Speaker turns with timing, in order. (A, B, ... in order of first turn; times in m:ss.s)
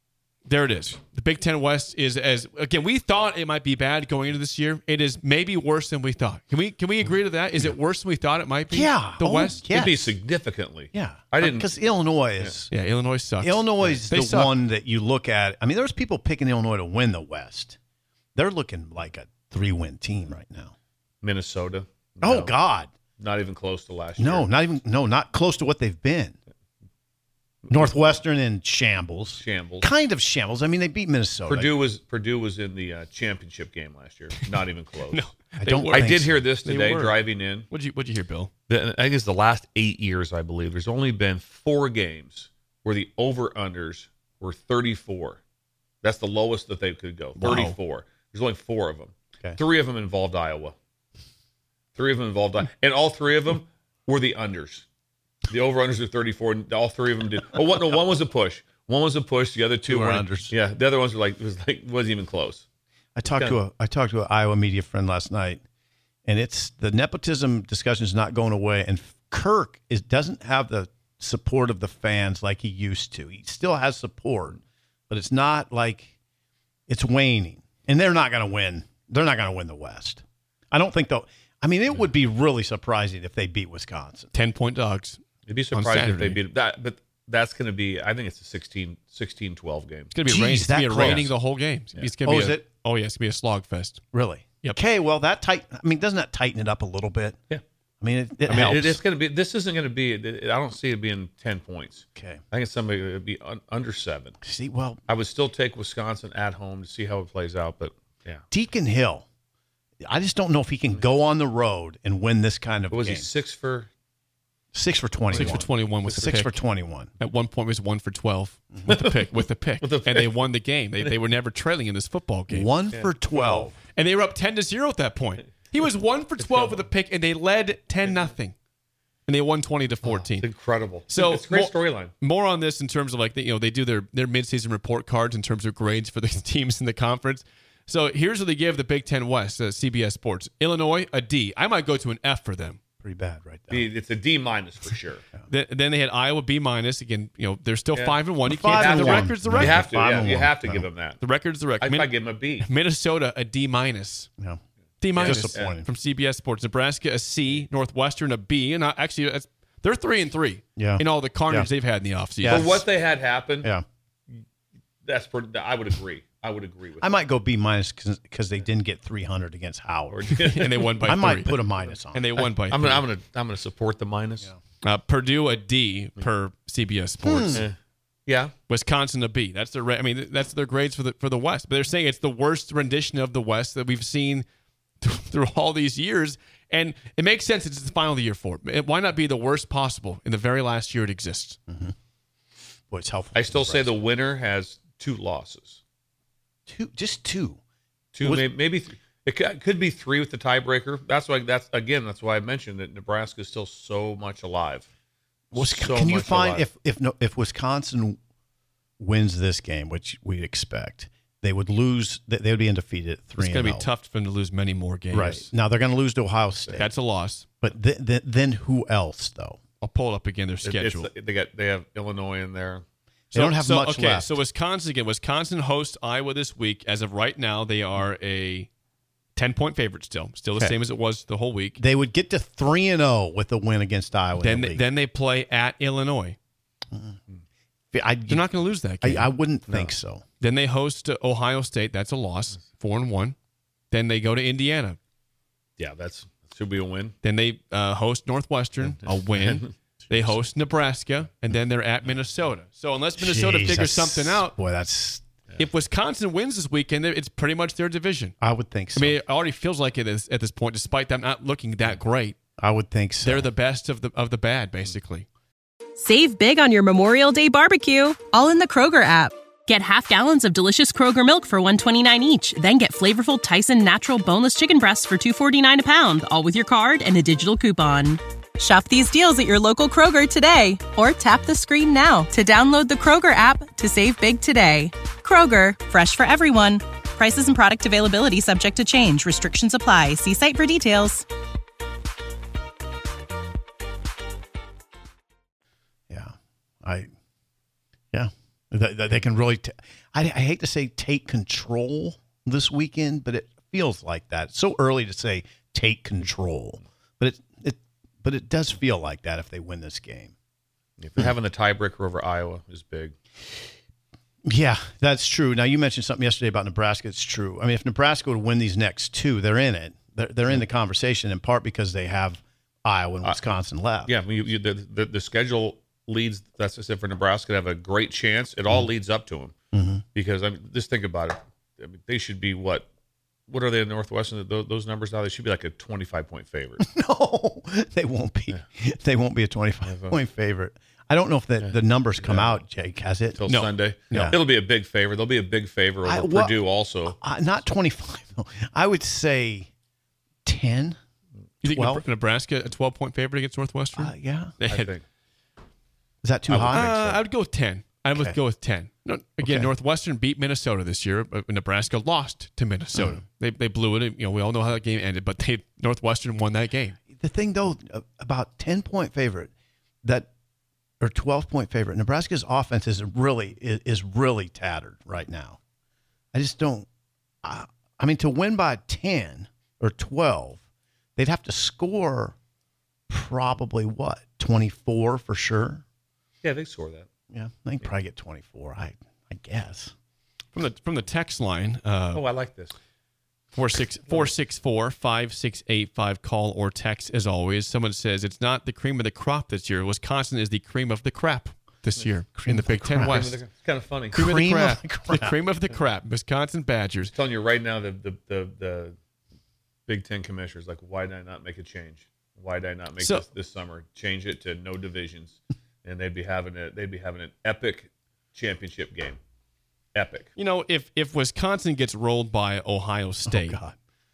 0:00.4-0:09.6 A
0:08.7-0:10.2 B
0:09.7-0:11.7 C
0:10.9-0:12.7 B
0:12.7-0:14.5 A
0:13.4-0:17.8 B
0:18.3-0:20.7 B
0:21.2-0:22.5 C
0:22.2-0:22.9 B
0:23.2-0:24.5 C
0:24.2-0:26.4 B
0:27.6-0:28.1 C
0:27.7-0:31.7 B
0:29.4-0:29.9 C
0:31.5-0:35.3 C
0:35.1-0:37.2 A
0:35.6-0:36.4 B
0:35.9-0:37.7 C
0:37.7-0:38.5 A
0:38.7-0:45.4 C
0:46.0-0:50.7 C
0:47.4-0:47.8 A
0:52.0-0:54.8 C
0:55.5-1:02.6 C
0:59.9-1:00.5 B
1:03.2-1:05.6 B
1:06.2-1:16.1 B
1:16.9-1:24.3 B
1:24.3-1:25.2 A
1:25.5-1:30.1 C
1:25.7-1:26.4 A
1:30.1-1:34.0 A
1:30.2-1:31.3 B
1:32.2-1:32.6 B
1:34.1-1:37.4 B
1:38.0-1:39.0 B
1:38.5-1:44.4 C
1:42.2-1:42.4 B
1:44.4-1:45.0 B
1:45.1-1:48.4 C
1:48.5-1:49.2 B
1:50.0-1:53.3 B
1:52.9-1:53.9 C
1:54.7-1:57.1 B
1:55.3-1:55.6 C
1:55.3-1:56.5 A
1:57.2-2:02.7 A
1:58.9-1:59.1 C
1:59.8-2:00.3 C
2:02.5-2:03.7 B
2:02.9-2:03.7 C
2:03.9-2:08.5 A
2:06.4-2:06.8 C
2:08.0-2:08.3 C
2:09.3-2:10.5 A
2:10.0-2:12.1 C
2:11.1-2:22.8 A
2:23.0-2:23.9 B
2:23.7-2:25.2 C
2:25.5-2:29.8 A
2:27.9-2:31.2 C
2:28.4-2:30.9 B
2:31.2-2:32.1 A
2:31.8-2:32.6 C
2:32.6-2:34.3 A
2:35.0-2:42.7 A
2:35.1-2:35.9 B
2:35.2-2:35.7 C
2:40.8-2:41.7 B
2:42.4-2:42.8 B
2:42.5-2:43.7 C
2:45.0-2:47.1 C
2:47.0-2:52.3 B
2:50.1-2:51.5 C
2:50.5-2:51.6 A
2:52.1-2:53.0 A
2:52.4-2:54.5 C
2:54.8-2:57.6 A
2:57.2-2:57.6 B
2:58.3-2:58.5 C
2:58.7-3:04.5 A
3:05.0-3:11.6 A
3:11.7-3:11.9 B
3:12.9-3:13.9 B
3:13.3-3:15.8 C
3:16.7-3:17.6 B
3:18.1-3:24.9 C
3:25.5-3:28.2 B
3:25.5-3:26.6 C
3:29.0-3:33.9 B
3:33.4-3:35.5 A
3:35.1-3:36.9 B
3:36.8-3:37.5 A
3:37.6-3:39.6 B
3:39.8-3:41.1 A
3:40.6-3:42.8 C
3:43.3-3:48.7 A
3:43.3-3:44.3 B
3:49.3-3:51.8 A
3:51.8-3:54.8 B
3:54.4-3:56.4 A
3:56.9-3:57.2 B
3:57.9-3:58.4 B
3:58.3-3:59.3 A
3:59.0-4:00.2 B
3:59.7-3:59.9 C
4:00.4-4:03.3 A
4:03.9-4:05.0 A
4:05.8-4:07.1 C
4:07.2-4:14.5 A
4:09.0-4:09.7 C
4:13.2-4:15.2 B
4:15.6-4:18.4 A
4:18.4-4:19.2 B
4:19.0-4:22.4 A
4:22.6-4:23.5 B
4:23.2-4:25.2 A
4:26.0-4:51.2 D
4:56.1-4:57.1 B
4:58.1-5:10.3 B
5:11.0-5:13.1 C
5:14.4-5:24.1 B
5:24.0-5:29.5 C
5:29.7-5:30.0 B
5:30.1-5:32.9 C
5:33.5-5:36.8 C
5:36.8-5:43.4 B
5:39.8-5:40.2 C
5:41.6-5:42.6 C
5:43.4-5:47.2 C
5:43.5-5:43.7 A
5:44.1-5:44.4 B
5:46.0-5:49.7 B
5:50.4-5:51.0 B
5:51.6-5:54.9 A
5:51.6-5:52.0 B
5:54.0-5:54.5 B
5:54.7-5:55.0 C
5:56.2-5:57.2 B
5:56.5-5:57.0 C
5:56.7-6:07.0 A
5:59.4-5:59.7 B
6:02.9-6:03.2 B
6:07.1-6:09.5 B
6:10.0-6:10.3 B
6:11.0-6:15.6 B
6:16.3-6:16.9 B
6:17.4-6:20.6 B
6:21.2-6:22.4 B
6:23.1-6:25.8 B
6:26.4-6:27.1 C
6:27.3-6:29.9 B
6:30.5-6:32.2 A
6:32.1-6:32.7 C
6:33.5-6:43.4 A
6:42.4-6:43.2 B
6:43.0-6:44.1 C
6:44.1-6:47.1 A
6:44.1-6:45.3 B
6:47.1-6:49.0 C
6:49.9-6:59.2 C
6:53.0-6:53.2 A
6:59.9-7:00.3 C
7:00.4-7:03.6 A
7:03.2-7:03.7 B